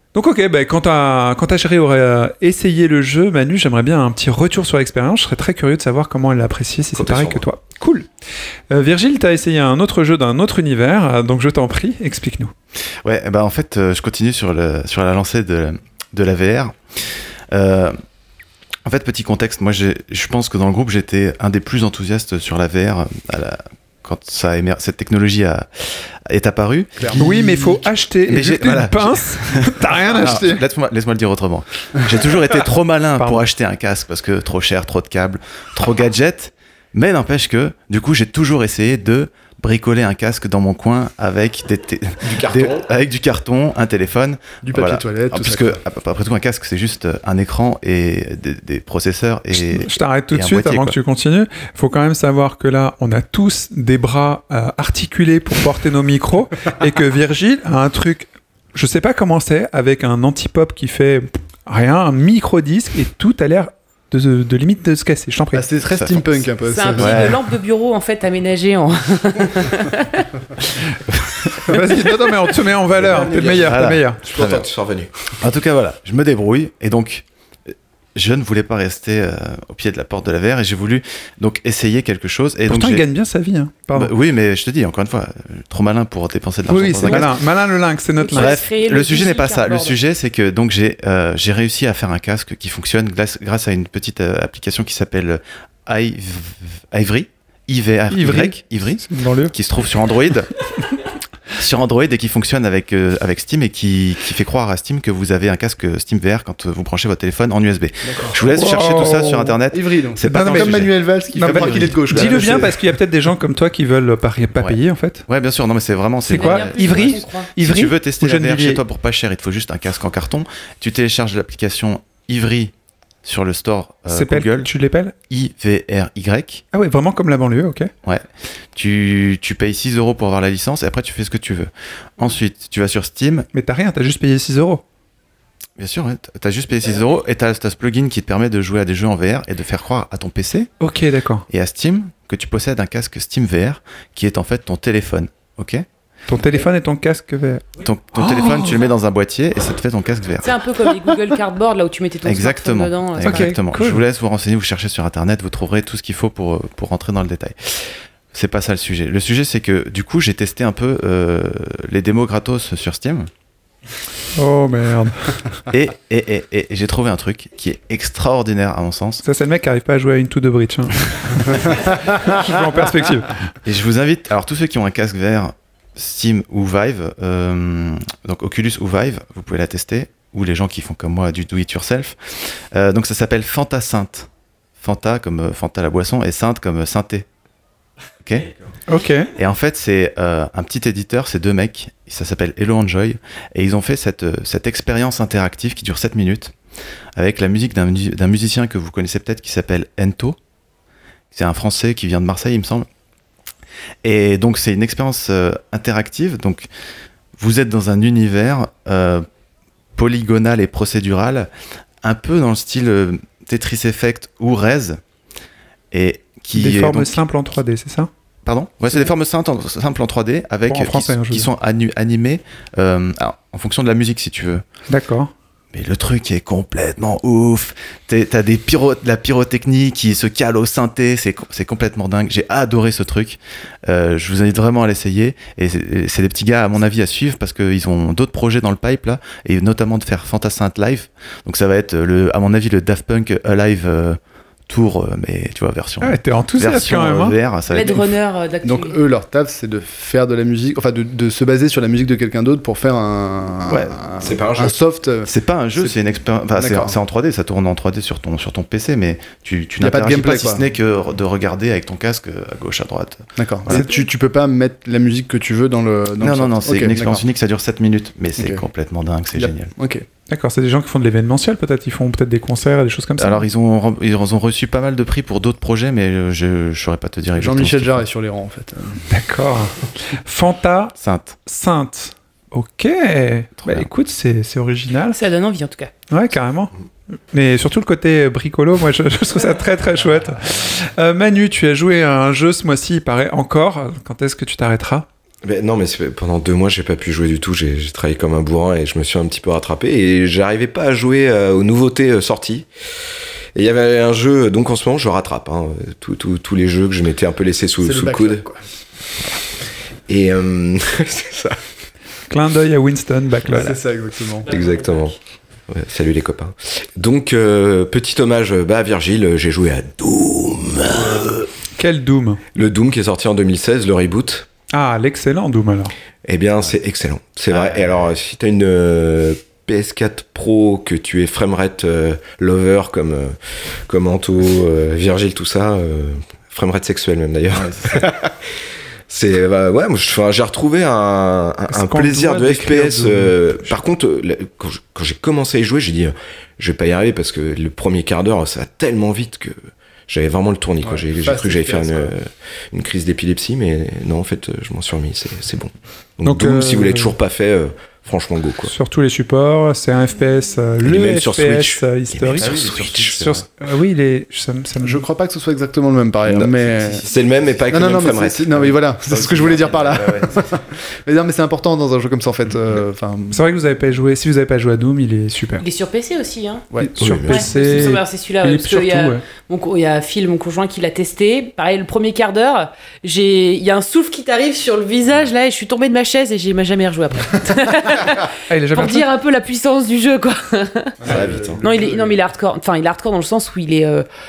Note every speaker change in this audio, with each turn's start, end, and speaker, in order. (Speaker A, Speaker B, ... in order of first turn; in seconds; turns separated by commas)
Speaker A: 0.1-8.1, Speaker B: 6.9-7.5, Speaker A: 8.7-12.5, Speaker C: 13.0-18.0, Speaker C: 18.9-27.7, Speaker D: 27.0-27.8, Speaker A: 27.2-30.6, Speaker C: 28.3-51.0, Speaker A: 33.2-33.4, Speaker B: 42.2-42.9, Speaker D: 44.6-45.8, Speaker A: 49.6-65.7, Speaker D: 65.5-67.4, Speaker C: 65.9-66.4, Speaker E: 66.7-70.3, Speaker C: 67.0-67.4, Speaker A: 71.4-74.2, Speaker B: 73.0-75.1, Speaker C: 73.5-74.7, Speaker C: 75.4-83.1, Speaker A: 82.7-84.1, Speaker C: 83.9-87.3, Speaker A: 86.7-88.6, Speaker E: 88.2-90.0, Speaker C: 88.3-100.5, Speaker A: 98.1-99.5, Speaker C: 101.5-112.7, Speaker D: 108.0-108.4, Speaker A: 108.5-109.6, Speaker D: 109.7-112.9, Speaker A: 110.3-115.2, Speaker C: 114.6-122.7, Speaker A: 116.3-118.8, Speaker E: 116.3-117.5, Speaker C: 123.2-124.7, Speaker A: 124.1-125.1, Speaker C: 125.3-126.6, Speaker A: 126.7-127.9, Speaker C: 128.0-133.5, Speaker A: 133.5-134.8, Speaker C: 135.8-140.7, Speaker A: 140.8-141.5, Speaker C: 141.5-145.8, Speaker A: 146.3-148.8, Speaker C: 147.8-150.6, Speaker E: 150.4-153.5, Speaker C: 152.2-163.3, Speaker A: 153.2-154.0, Speaker A: 164.4-165.4, Speaker C: 165.7-169.2, Speaker A: 169.2-173.4, Speaker C: 173.6-187.3, Speaker C: 188.2-188.5, Speaker A: 188.9-189.3, Speaker C: 189.3-196.6, Speaker C: 197.2-200.4, Speaker C: 201.3-202.9, Speaker C: 204.0-206.7, Speaker C: 207.4-209.3, Speaker C: 210.0-211.5, Speaker C: 212.0-215.0, Speaker C: 215.9-217.2, Speaker A: 216.5-218.1, Speaker C: 218.4-224.6, Speaker A: 220.7-221.5, Speaker A: 224.9-225.3, Speaker C: 225.7-248.0, Speaker A: 246.0-247.4, Speaker E: 247.7-249.0, Speaker D: 248.6-256.0, Speaker C: 253.7-254.0, Speaker B: 254.2-254.8, Speaker C: 255.2-263.9, Speaker D: 256.6-256.9, Speaker D: 259.8-260.6, Speaker D: 263.4-267.2, Speaker C: 266.2-269.7, Speaker D: 268.4-268.6, Speaker D: 269.4-270.1, Speaker A: 270.3-273.4, Speaker C: 273.2-278.0, Speaker D: 277.4-279.0, Speaker A: 279.1-285.2, Speaker C: 281.0-281.4, Speaker C: 283.6-283.9, Speaker E: 285.1-285.9, Speaker A: 286.1-286.7, Speaker A: 287.3-295.1, Speaker B: 295.4-302.7, Speaker B: 303.6-308.5, Speaker D: 307.8-308.6, Speaker B: 310.1-311.6, Speaker A: 312.3-313.8, Speaker D: 313.5-314.5, Speaker B: 314.5-315.2, Speaker B: 315.7-321.5, Speaker A: 321.8-322.4, Speaker B: 322.5-324.5, Speaker A: 324.7-325.9, Speaker B: 326.2-333.4, Speaker B: 333.9-338.3, Speaker C: 337.6-338.1, Speaker B: 339.1-358.7, Speaker A: 341.7-343.7, Speaker D: 350.8-352.1, Speaker A: 356.2-357.2, Speaker A: 358.7-365.0, Speaker B: 360.8-363.2, Speaker C: 362.4-363.4, Speaker D: 364.8-367.1, Speaker B: 366.3-368.8, Speaker D: 367.7-373.4, Speaker C: 369.1-370.6, Speaker A: 373.3-375.6, Speaker E: 375.6-376.7, Speaker D: 376.7-377.2, Speaker A: 376.8-379.2, Speaker B: 377.0-377.5, Speaker E: 377.3-391.0, Speaker A: 388.5-389.1, Speaker D: 391.0-392.2, Speaker B: 391.1-391.6, Speaker E: 391.6-394.1